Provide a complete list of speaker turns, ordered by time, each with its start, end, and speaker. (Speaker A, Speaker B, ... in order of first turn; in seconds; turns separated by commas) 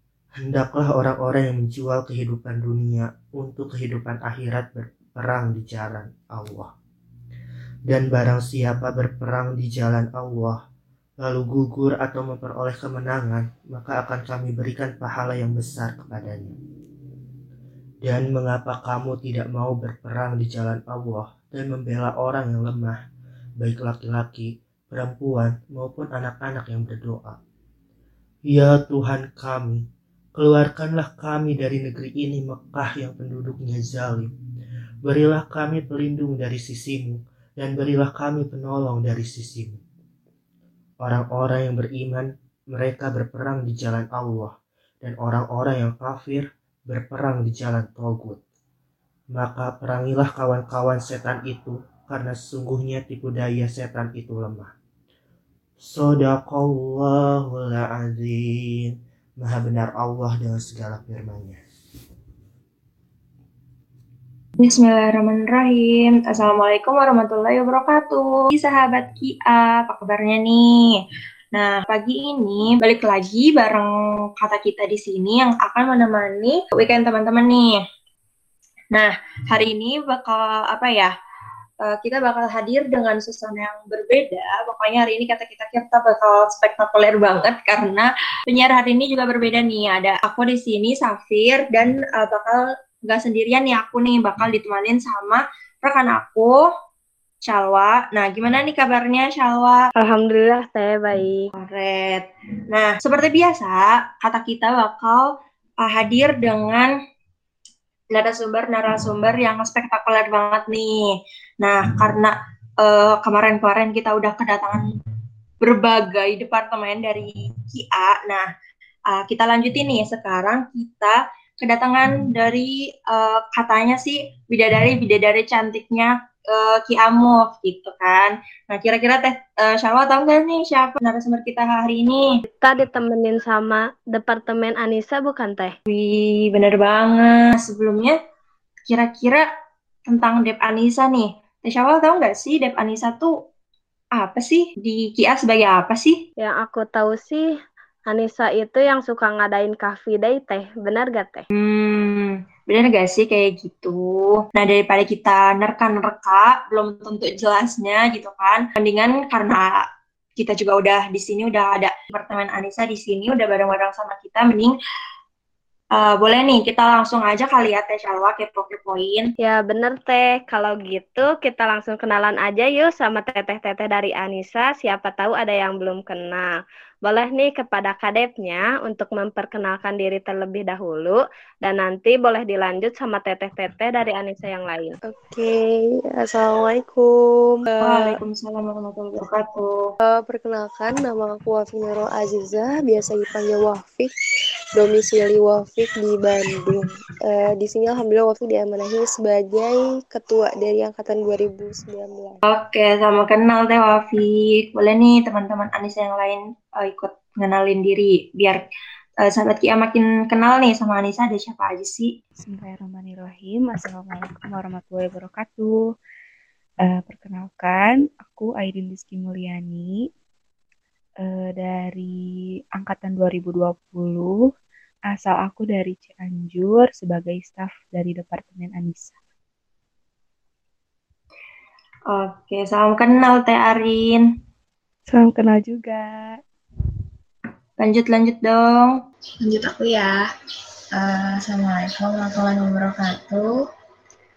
Speaker A: 0.3-6.7, Speaker A: 7.9-10.6, Speaker A: 11.2-16.5, Speaker A: 18.0-23.0, Speaker A: 23.6-27.4, Speaker A: 28.5-29.8, Speaker A: 30.4-34.3, Speaker A: 35.0-39.8, Speaker A: 41.0-48.4, Speaker A: 49.3-54.7, Speaker A: 55.8-61.6, Speaker B: 64.6-71.0, Speaker B: 71.5-77.8, Speaker B: 78.9-81.1, Speaker B: 81.8-96.6, Speaker B: 97.5-99.8, Speaker C: 100.0-101.5, Speaker B: 101.6-105.3, Speaker B: 105.8-106.9, Speaker B: 108.1-111.0, Speaker B: 111.6-114.8, Speaker B: 115.6-118.5, Speaker B: 119.1-132.2, Speaker C: 132.6-135.7, Speaker B: 135.9-138.2, Speaker B: 138.9-139.4, Speaker B: 140.1-143.3, Speaker B: 144.2-146.2, Speaker C: 146.4-147.5, Speaker C: 148.1-151.4, Speaker B: 151.5-159.9, Speaker B: 160.4-164.7, Speaker B: 165.9-169.3, Speaker C: 169.4-184.9, Speaker D: 185.1-188.2, Speaker B: 187.8-189.9, Speaker D: 190.0-194.1, Speaker D: 194.7-202.4, Speaker B: 202.5-208.6, Speaker B: 209.2-212.1, Speaker E: 212.4-215.8, Speaker E: 216.8-220.1, Speaker E: 221.2-222.2, Speaker E: 222.8-224.3, Speaker E: 225.1-229.2, Speaker B: 232.1-234.3, Speaker E: 235.1-236.4, Speaker B: 237.8-238.9, Speaker F: 239.4-240.2, Speaker F: 240.9-243.5